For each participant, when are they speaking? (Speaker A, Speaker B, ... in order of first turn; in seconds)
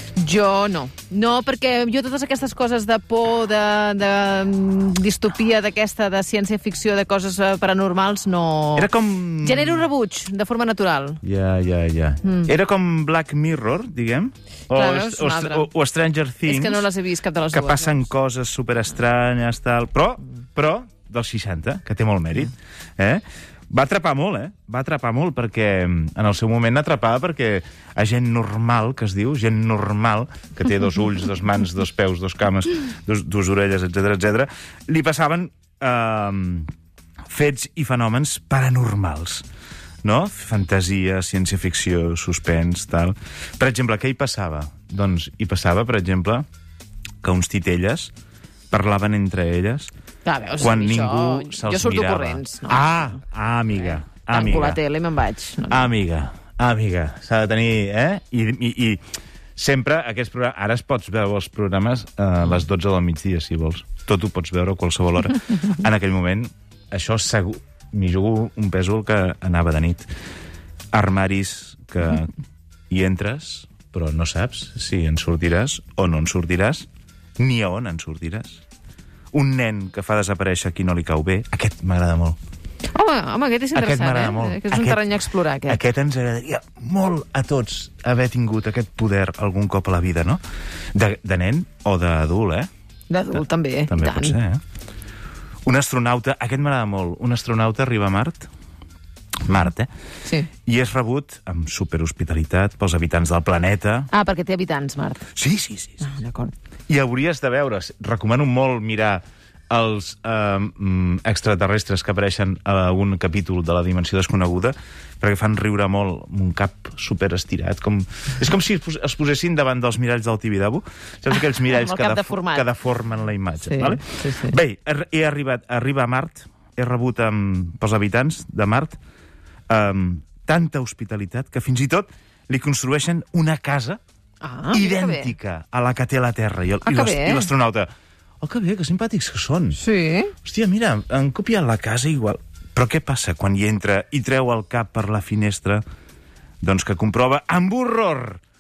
Speaker A: 0.2-8.9, 9.4-11.2, 14.7-15.7, 16.5-18.1, 50.2-53.1, 54.1-55.9, 83.0-85.8, 93.1-94.4, 104.1-105.2, 106.0-106.5, 121.5-122.7, 123.6-124.5, 134.4-135.3, 136.8-137.5, 139.8-140.3
Speaker B: 8.8-9.9, 11.2-16.9, 17.5-36.7, 37.3-39.5, 40.0-46.5, 47.2-48.1, 48.7-49.9, 50.6-54.8, 55.7-59.0, 59.6-70.1, 70.9-72.3, 72.9-76.9, 77.4-78.6, 79.3-82.4, 83.7-85.1, 85.7-90.4, 91.0-92.7, 93.3-94.6, 95.7-98.5, 99.5-99.9, 100.7-104.1, 105.3-106.1, 106.9-129.0, 129.7-134.0, 134.7-137.9, 138.4-139.8, 140.4-145.8, 146.6-148.4